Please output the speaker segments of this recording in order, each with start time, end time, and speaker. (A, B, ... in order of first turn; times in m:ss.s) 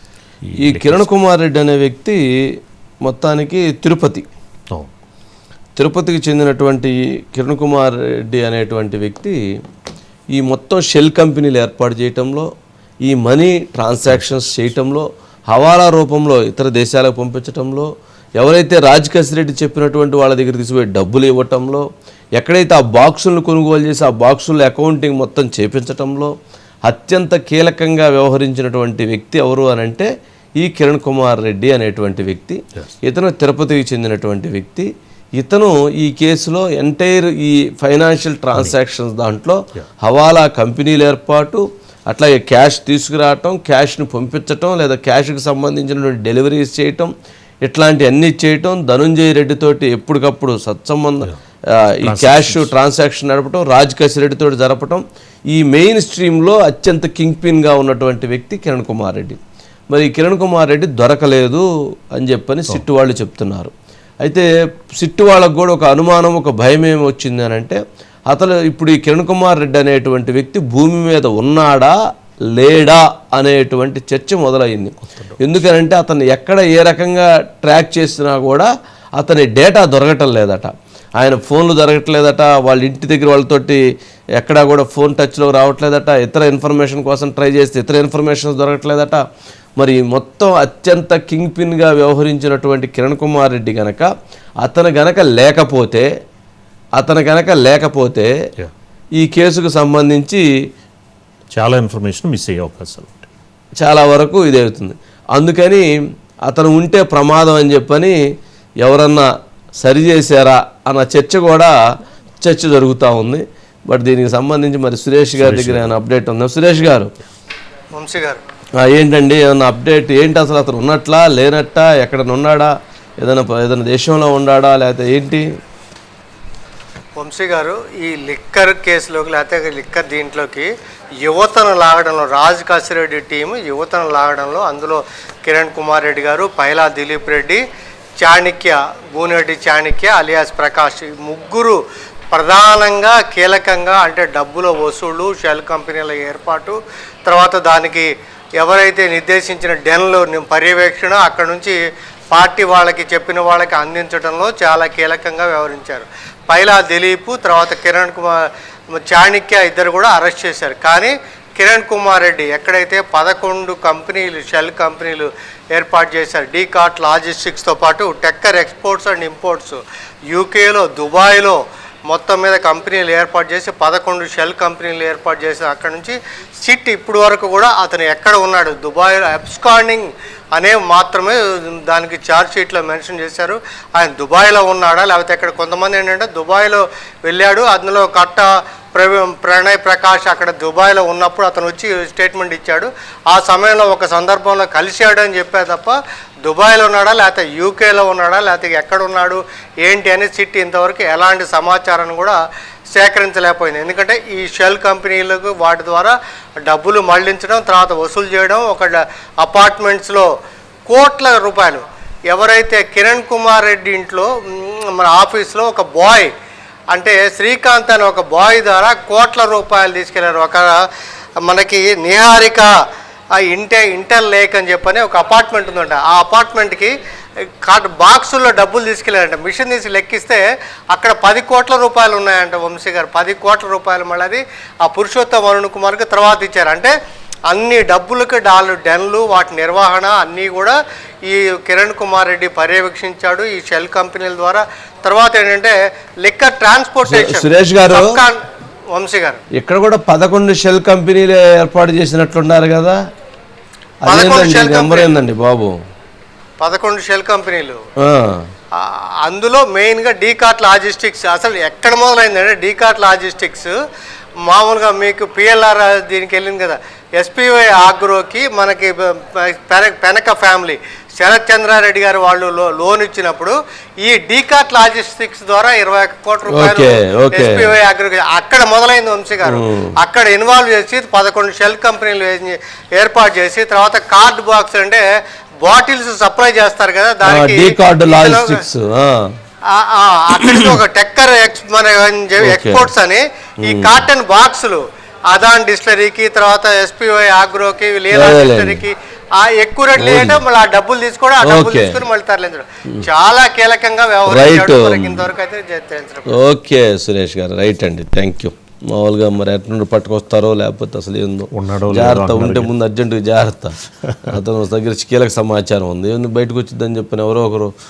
0:00.4-0:01.1 A
0:00.6-0:04.3 B
0:05.8-0:09.4 B
0:10.3-0:12.5 B
0:13.1-0:21.8 B
0:22.4-0:26.3 B
0:26.9-0:30.1 B
0:30.6-0:47.1 B
0:47.6-0:59.4 B
0:52.0-0:52.7 A
0:59.9-1:03.7 B
1:04.2-1:04.5 B
1:05.0-1:12.0 B
1:12.5-1:23.8 B
1:15.1-1:15.4 A
1:24.4-1:29.2 B
1:29.8-1:34.1 B
1:34.6-1:36.1 B
1:37.0-1:38.3 B
1:39.2-1:40.4 B
1:41.5-1:43.3 A
1:43.8-1:45.9 B
1:46.5-1:48.2 B
1:48.8-1:49.3 B
1:49.8-1:51.7 B
1:52.4-1:57.1 B
1:55.4-1:55.9 A
1:57.9-1:58.4 C
1:58.8-2:05.5 B
2:07.2-2:10.7 C
2:11.2-2:17.6 C
2:18.2-2:21.8 C
2:22.3-2:28.1 C
2:28.6-2:31.8 C
2:32.3-3:22.4 C
3:22.9-3:26.2 C
3:26.7-3:30.3 C
3:30.9-3:36.3 C
3:36.9-3:40.7 C
3:41.5-3:42.7 C
3:43.4-3:46.9 C
3:47.6-3:56.9 C
3:57.5-4:00.8 C
4:01.3-4:09.4 C
4:07.1-4:08.2 B
4:09.5-4:13.0 B
4:14.0-4:15.8 B
4:14.1-4:15.2 C
4:16.6-4:17.8 C
4:18.0-4:18.4 B
4:18.8-4:23.7 C
4:24.5-4:45.0 C
4:36.5-4:37.7 B
4:39.5-4:39.9 B
4:45.6-4:48.6 C
4:47.2-4:49.3 B
4:49.7-5:06.4 C
4:50.4-4:50.8 B
4:52.4-4:52.9 B
4:53.6-4:54.0 B
4:58.1-4:58.8 B
5:00.0-5:00.4 B
5:01.4-5:02.0 B
5:04.3-5:05.3 B
5:06.3-5:17.7 B
5:11.5-5:12.7 A